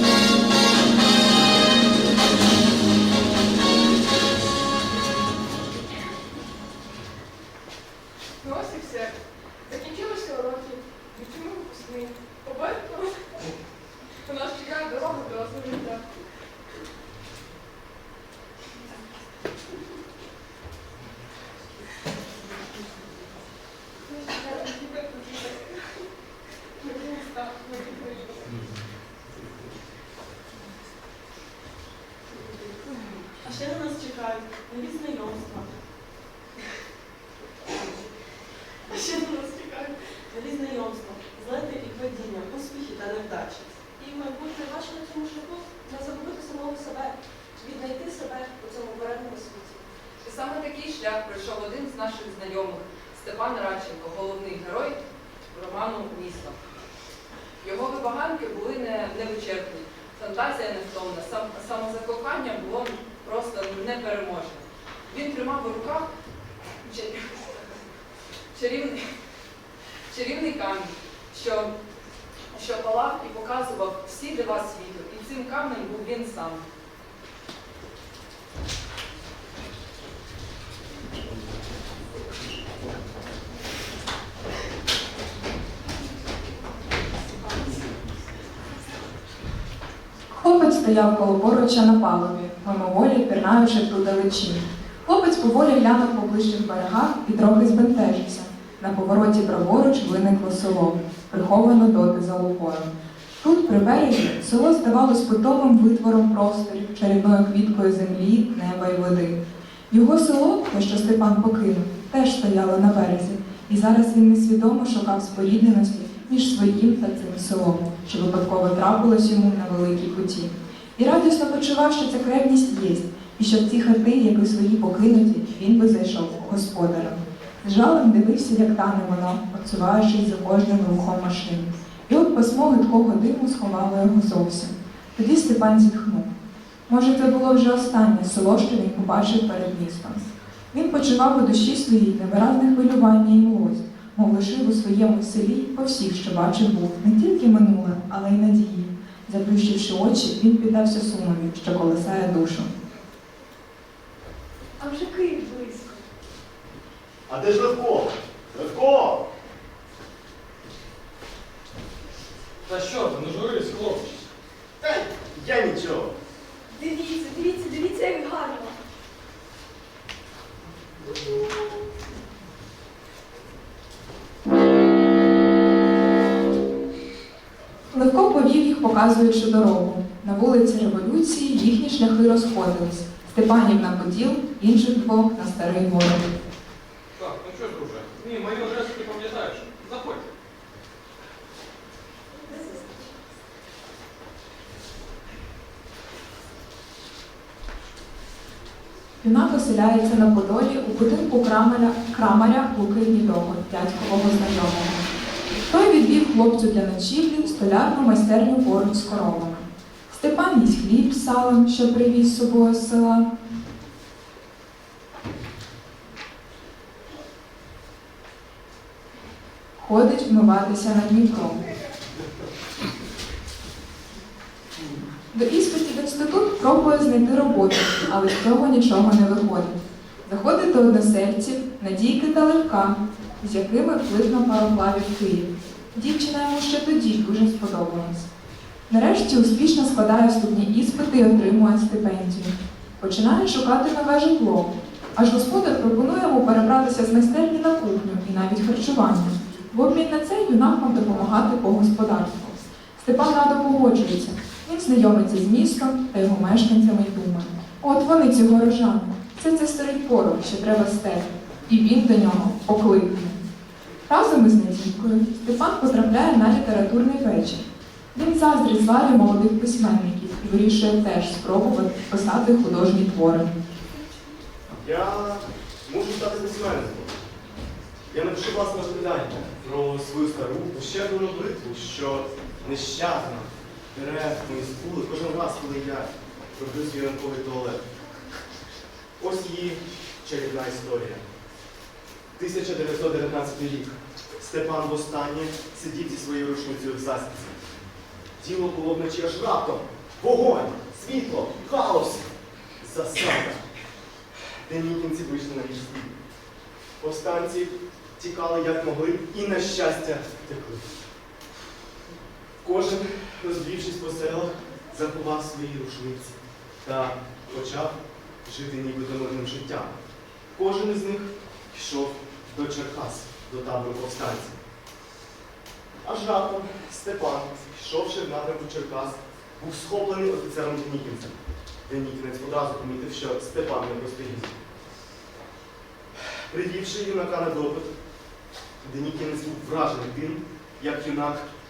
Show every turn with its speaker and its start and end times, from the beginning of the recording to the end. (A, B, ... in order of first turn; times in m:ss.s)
0:08.4-0:13.5 A
0:14.2-0:16.1 A
0:24.2-0:25.6 B
0:26.9-0:28.1 B
0:32.3-0:35.9 B
0:37.6-0:38.1 B
0:38.8-0:49.9 B
0:50.2-0:56.6 A
0:57.6-1:06.1 A
1:06.8-1:07.7 A
1:08.5-1:09.1 A
1:10.1-1:11.8 A
1:12.5-1:16.6 A
1:27.5-1:27.8 B
1:30.3-2:16.3 C
2:16.9-2:32.7 C
2:34.8-2:36.0 D
2:37.3-2:39.3 E
2:42.6-2:44.2 F
2:44.8-2:46.2 E
2:46.7-2:48.8 D
2:57.9-3:06.3 C
3:07.2-3:10.3 F
3:12.4-3:13.1 D
3:19.2-3:25.0 C
3:25.7-3:33.3 C
3:39.8-3:41.6 C
3:45.3-3:58.3 C
3:58.9-4:23.5 C
4:24.1-4:33.6 C
4:34.8-4:37.1 E
4:38.1-4:47.8 E
4:49.2-4:51.2 E
4:52.4-4:57.6 E
4:58.4-5:03.6 E
5:04.6-5:06.1 E
5:07.0-5:10.9 E
5:12.6-5:19.9 E
5:20.6-5:24.6 E
5:26.0-5:31.3 E
5:31.9-5:34.6 E
5:36.2-5:37.9 E
5:38.8-5:41.5 E